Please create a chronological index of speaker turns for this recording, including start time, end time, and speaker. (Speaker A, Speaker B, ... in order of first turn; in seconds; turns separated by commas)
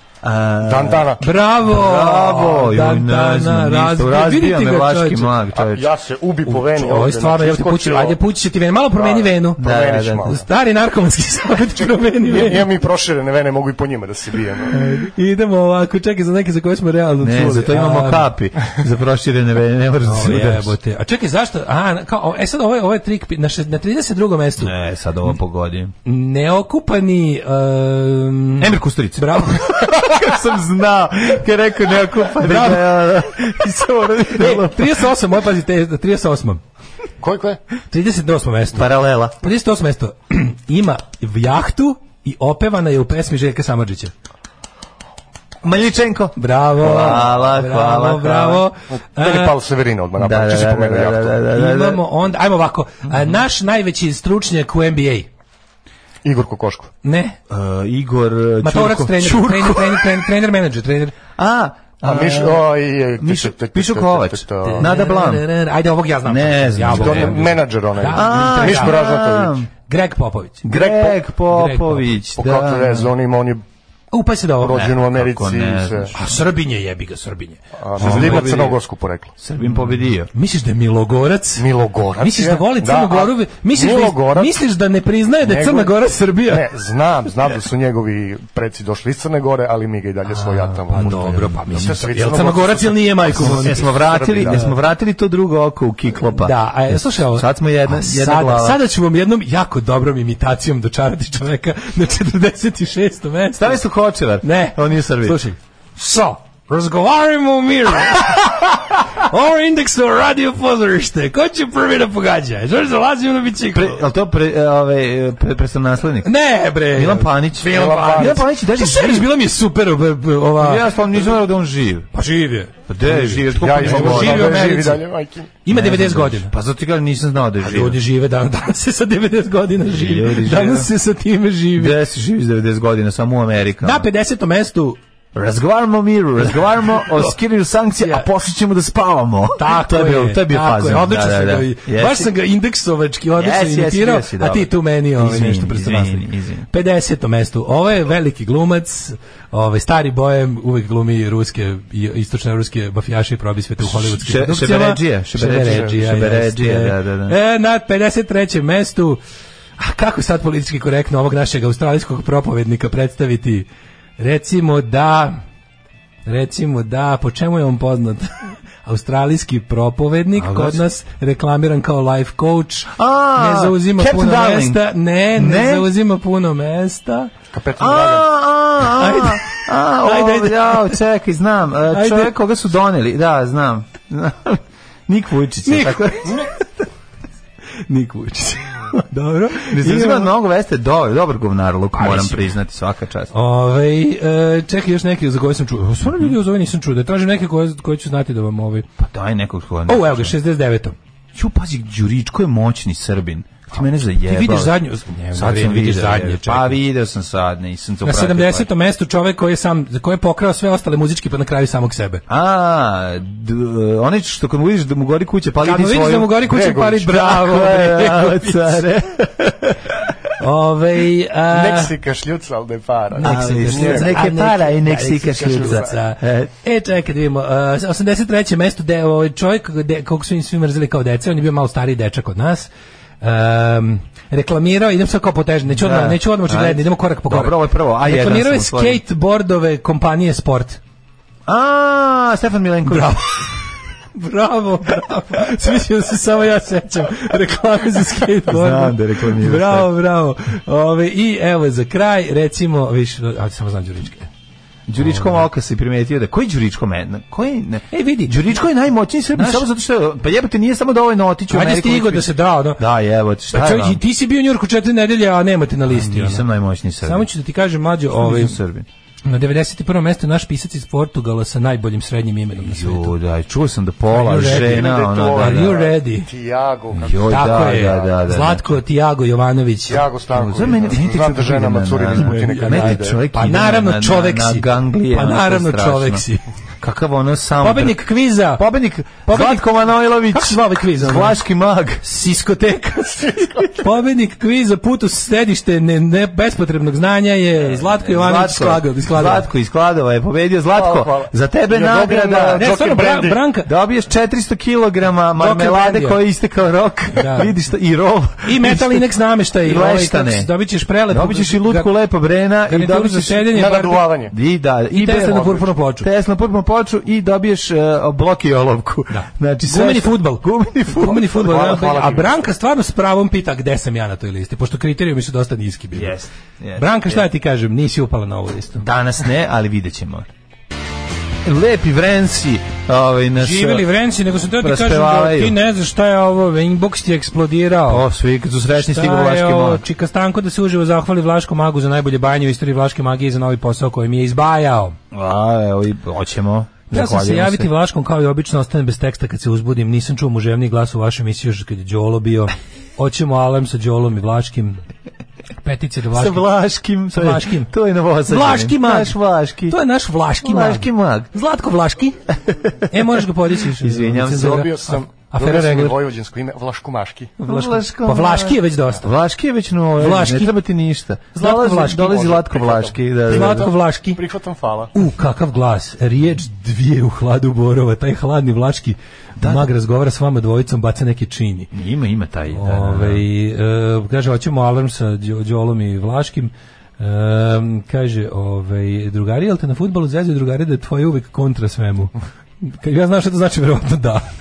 Speaker A: 0.2-5.9, Speaker B: 0.6-1.2, Speaker C: 1.2-5.3, Speaker B: 5.5-8.2, Speaker C: 6.5-12.7, Speaker B: 8.9-10.5, Speaker A: 9.6-10.4, Speaker B: 12.2-14.8, Speaker C: 14.7-18.3, Speaker A: 17.2-20.7, Speaker C: 20.0-24.7, Speaker A: 24.6-25.9, Speaker C: 26.1-29.9, Speaker A: 28.6-35.1, Speaker C: 32.4-33.0, Speaker C: 34.3-36.6, Speaker B: 37.2-37.6, Speaker C: 37.9-44.1, Speaker A: 38.7-39.4, Speaker A: 45.6-48.7, Speaker C: 46.4-49.6, Speaker B: 49.2-51.5, Speaker A: 50.2-52.0, Speaker C: 51.5-55.3, Speaker B: 56.2-56.9, Speaker C: 57.0-57.4, Speaker A: 57.5-60.2, Speaker C: 58.6-61.2, Speaker A: 61.4-62.7, Speaker B: 62.0-65.0, Speaker A: 63.2-65.5, Speaker C: 64.6-69.0, Speaker A: 66.2-67.4, Speaker B: 66.9-69.6, Speaker A: 68.1-69.7, Speaker C: 69.9-72.2, Speaker A: 70.6-73.1, Speaker B: 72.4-73.6, Speaker C: 74.1-74.8, Speaker B: 74.6-76.1, Speaker A: 74.7-76.3, Speaker C: 76.2-78.7, Speaker B: 77.8-79.3, Speaker A: 78.0-78.8, Speaker A: 79.4-80.3, Speaker C: 80.3-81.7, Speaker B: 81.6-84.7, Speaker C: 82.2-86.7, Speaker B: 85.4-94.7, Speaker C: 90.3-94.7, Speaker A: 90.9-91.9, Speaker A: 93.3-98.8, Speaker C: 96.4-103.8, Speaker A: 103.6-105.4, Speaker C: 104.4-114.0, Speaker A: 113.7-116.3, Speaker C: 116.2-121.0, Speaker A: 116.9-119.3, Speaker B: 117.6-118.5, Speaker A: 120.6-122.1, Speaker C: 122.1-125.0, Speaker A: 122.9-124.6, Speaker B: 123.5-125.6, Speaker C: 125.6-126.5, Speaker A: 125.7-128.0, Speaker C: 127.6-131.9, Speaker A: 129.9-130.9, Speaker A: 131.8-134.1, Speaker C: 133.8-135.0, Speaker A: 135.3-142.3, Speaker C: 136.5-137.3, Speaker C: 138.0-138.3, Speaker C: 139.6-159.2, Speaker A: 143.4-146.7, Speaker A: 153.8-157.4, Speaker B: 155.6-155.9, Speaker C: 159.8-163.7, Speaker C: 164.2-165.4, Speaker C: 166.3-177.3, Speaker A: 170.3-170.8, Speaker A: 172.9-175.9, Speaker B: 177.5-178.3, Speaker A: 177.8-186.6, Speaker C: 178.9-181.0, Speaker C: 181.9-182.3, Speaker C: 185.7-186.5, Speaker C: 187.9-190.3, Speaker A: 189.6-193.3, Speaker C: 192.0-192.5, Speaker C: 193.3-198.9, Speaker A: 196.0-196.3, Speaker A: 199.0-200.3, Speaker C: 199.9-200.9, Speaker A: 201.3-208.7, Speaker C: 204.2-206.8, Speaker C: 208.0-212.2, Speaker A: 212.3-216.4, Speaker C: 215.6-218.8, Speaker B: 216.4-217.4, Speaker A: 217.1-220.0, Speaker C: 220.4-221.9, Speaker B: 221.5-224.3, Speaker C: 223.1-232.7, Speaker A: 223.2-226.5, Speaker B: 225.4-225.9, Speaker C: 233.2-240.8, Speaker A: 235.7-239.0, Speaker A: 241.5-243.2, Speaker C: 242.9-243.6, Speaker C: 244.1-254.3, Speaker A: 248.5-249.9, Speaker A: 254.9-264.0, Speaker C: 255.0-255.4, Speaker C: 257.9-258.4, Speaker C: 259.3-259.7, Speaker C: 261.5-262.8, Speaker C: 263.5-266.5, Speaker A: 265.9-267.3, Speaker C: 267.0-268.6, Speaker A: 268.2-268.9, Speaker C: 269.2-273.1, Speaker A: 272.6-275.9, Speaker C: 274.1-276.3, Speaker B: 274.3-278.1, Speaker A: 276.9-278.8, Speaker C: 277.1-280.1, Speaker B: 279.9-283.2, Speaker A: 280.3-286.2, Speaker C: 282.2-286.4, Speaker A: 286.8-292.0, Speaker C: 287.6-291.4, Speaker C: 292.0-299.5, Speaker B: 293.3-293.6, Speaker A: 297.6-302.7, Speaker B: 300.7-303.4, Speaker C: 302.5-303.7, Speaker A: 303.6-309.1, Speaker C: 305.4-306.2, Speaker C: 307.1-307.5, Speaker C: 308.4-311.9, Speaker A: 309.6-310.5, Speaker A: 311.1-313.5, Speaker C: 312.7-314.1, Speaker B: 313.5-314.4, Speaker A: 314.3-321.5, Speaker C: 314.9-316.1, Speaker B: 315.4-315.7, Speaker C: 319.1-326.2, Speaker B: 321.4-322.5, Speaker A: 325.9-327.3, Speaker C: 326.8-328.9, Speaker A: 328.8-330.3, Speaker A: 331.4-333.9, Speaker C: 333.4-338.1, Speaker A: 334.6-335.6, Speaker A: 337.9-339.8, Speaker C: 338.7-345.0, Speaker A: 345.1-347.7, Speaker C: 346.9-354.8, Speaker C: 355.6-356.5, Speaker A: 356.1-359.8, Speaker C: 357.1-357.7, Speaker C: 358.3-362.2, Speaker A: 360.4-361.3, Speaker A: 362.5-363.1, Speaker C: 362.9-366.0, Speaker A: 363.7-364.7, Speaker B: 364.5-367.4, Speaker C: 367.4-369.1, Speaker A: 367.4-373.7, Speaker C: 370.0-370.6, Speaker C: 371.4-372.3, Speaker B: 372.0-374.9, Speaker C: 373.3-374.2, Speaker C: 374.9-381.7, Speaker A: 379.4-379.7, Speaker A: 381.7-383.3, Speaker C: 382.5-394.3